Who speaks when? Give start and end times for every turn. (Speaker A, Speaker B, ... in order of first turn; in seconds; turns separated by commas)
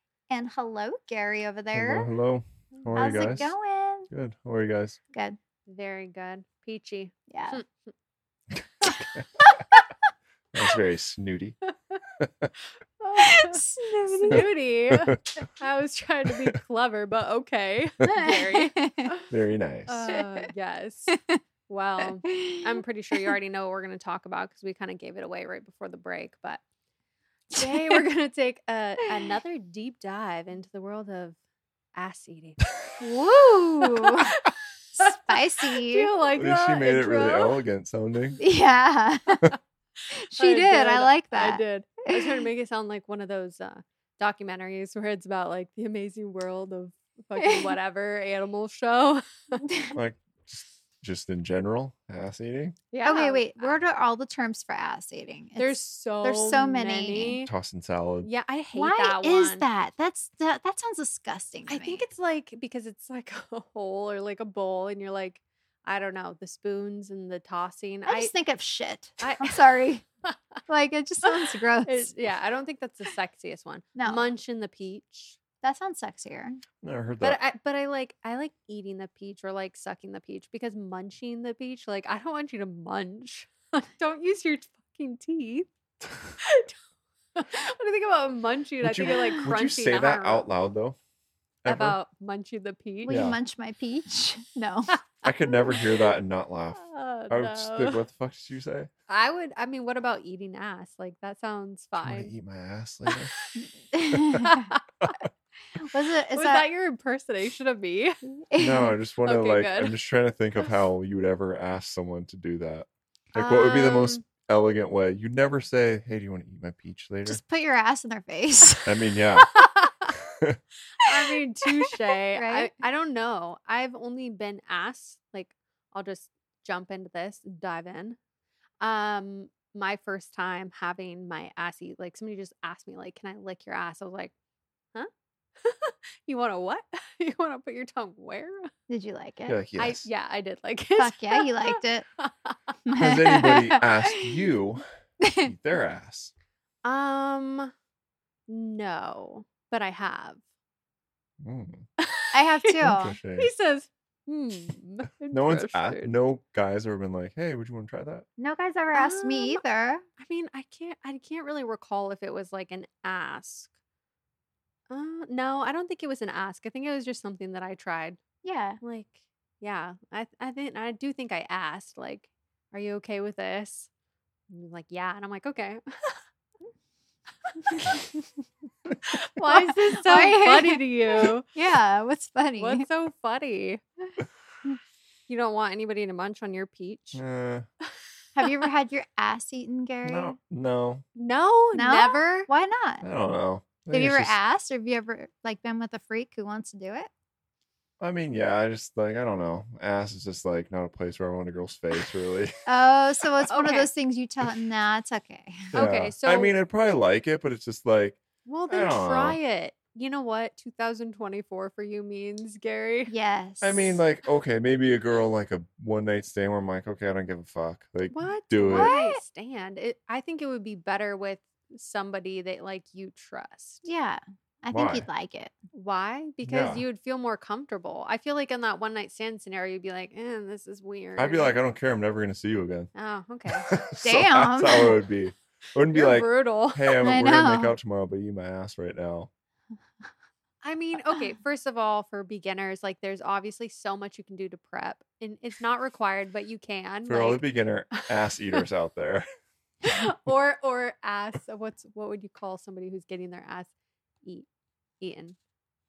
Speaker A: 0.3-2.1, Speaker B: 1.7-3.5, Speaker C: 2.7-3.5, Speaker A: 3.0-4.1, Speaker B: 4.1-5.0, Speaker A: 5.1-5.4, Speaker C: 5.7-7.7, Speaker A: 7.3-7.6, Speaker A: 9.4-9.8, Speaker B: 10.5-11.6, Speaker B: 12.2-12.5, Speaker C: 13.0-19.3, Speaker A: 13.2-14.4, Speaker A: 18.1-19.1, Speaker B: 19.3-20.1, Speaker C: 19.9-26.6, Speaker A: 21.1-21.4, Speaker A: 22.2-22.8, Speaker C: 27.5-31.4, Speaker C: 31.9-32.7, Speaker A: 33.0-34.3, Speaker C: 33.8-37.6, Speaker A: 34.9-36.2, Speaker B: 36.3-38.4, Speaker A: 38.4-39.5, Speaker A: 40.1-42.4, Speaker C: 40.2-49.6, Speaker A: 47.4-47.7, Speaker A: 49.7-49.9, Speaker B: 49.9-52.8, Speaker C: 52.9-53.8, Speaker A: 53.0-57.4, Speaker C: 55.6-57.5, Speaker B: 57.4-58.3, Speaker C: 58.2-59.6, Speaker A: 58.7-62.0, Speaker C: 61.7-68.3, Speaker A: 68.1-70.0, Speaker C: 69.2-70.4, Speaker A: 70.7-72.1, Speaker C: 71.2-75.4, Speaker A: 74.0-74.3, Speaker A: 75.6-76.6, Speaker B: 76.8-77.4, Speaker C: 77.2-85.7, Speaker C: 86.4-86.7, Speaker C: 87.3-90.5, Speaker B: 88.8-91.0, Speaker B: 91.6-92.0, Speaker C: 91.7-93.2, Speaker A: 93.0-94.9, Speaker B: 93.1-93.4, Speaker C: 94.9-96.1, Speaker B: 95.2-98.9, Speaker C: 96.7-98.0, Speaker C: 99.1-102.3, Speaker B: 102.0-103.3, Speaker C: 103.1-103.5, Speaker A: 103.6-104.7, Speaker B: 104.3-105.1, Speaker A: 105.7-106.7, Speaker C: 106.3-108.2, Speaker A: 108.2-109.0, Speaker B: 108.6-117.4, Speaker C: 109.2-110.0, Speaker C: 113.3-114.2, Speaker A: 117.2-119.1, Speaker B: 118.8-119.5, Speaker C: 119.4-120.1, Speaker C: 121.0-128.2, Speaker A: 122.3-122.7, Speaker C: 128.8-134.3, Speaker C: 135.6-138.7, Speaker A: 138.9-139.6, Speaker B: 139.5-140.1, Speaker C: 139.8-142.5, Speaker A: 141.0-142.1, Speaker A: 142.8-144.3, Speaker B: 143.0-144.8, Speaker A: 145.2-145.5, Speaker B: 145.4-146.3, Speaker C: 146.8-147.7, Speaker C: 148.5-150.4, Speaker B: 151.4-151.8, Speaker C: 152.0-156.1, Speaker A: 152.3-153.2, Speaker B: 152.8-153.5, Speaker B: 155.3-158.2, Speaker A: 158.4-160.0, Speaker C: 158.9-159.6, Speaker C: 160.2-163.7, Speaker C: 164.9-168.2, Speaker A: 168.4-168.8, Speaker C: 168.8-173.9, Speaker C: 174.5-176.2, Speaker C: 177.7-178.2, Speaker C: 179.0-181.5, Speaker A: 179.5-182.8, Speaker C: 182.6-183.8, Speaker C: 185.3-187.2, Speaker B: 187.1-187.7, Speaker A: 188.3-190.3, Speaker B: 190.0-191.0, Speaker C: 191.1-192.5, Speaker A: 191.7-193.1, Speaker B: 193.0-194.3, Speaker A: 193.9-197.1, Speaker B: 198.0-202.5, Speaker A: 202.7-205.8, Speaker C: 203.5-203.9, Speaker B: 205.7-209.4, Speaker C: 205.7-206.5, Speaker C: 208.4-213.1, Speaker A: 213.1-214.0, Speaker B: 213.6-218.9, Speaker C: 218.1-223.8, Speaker A: 218.7-219.2, Speaker A: 223.8-225.5, Speaker B: 224.7-225.1, Speaker C: 225.7-231.6, Speaker B: 226.4-226.8, Speaker B: 231.2-232.9, Speaker C: 232.9-233.7, Speaker B: 233.7-239.3, Speaker A: 234.0-235.0, Speaker C: 235.9-237.2, Speaker A: 237.0-237.7, Speaker C: 240.6-248.6, Speaker B: 247.1-249.3, Speaker C: 249.8-253.7, Speaker C: 255.0-255.4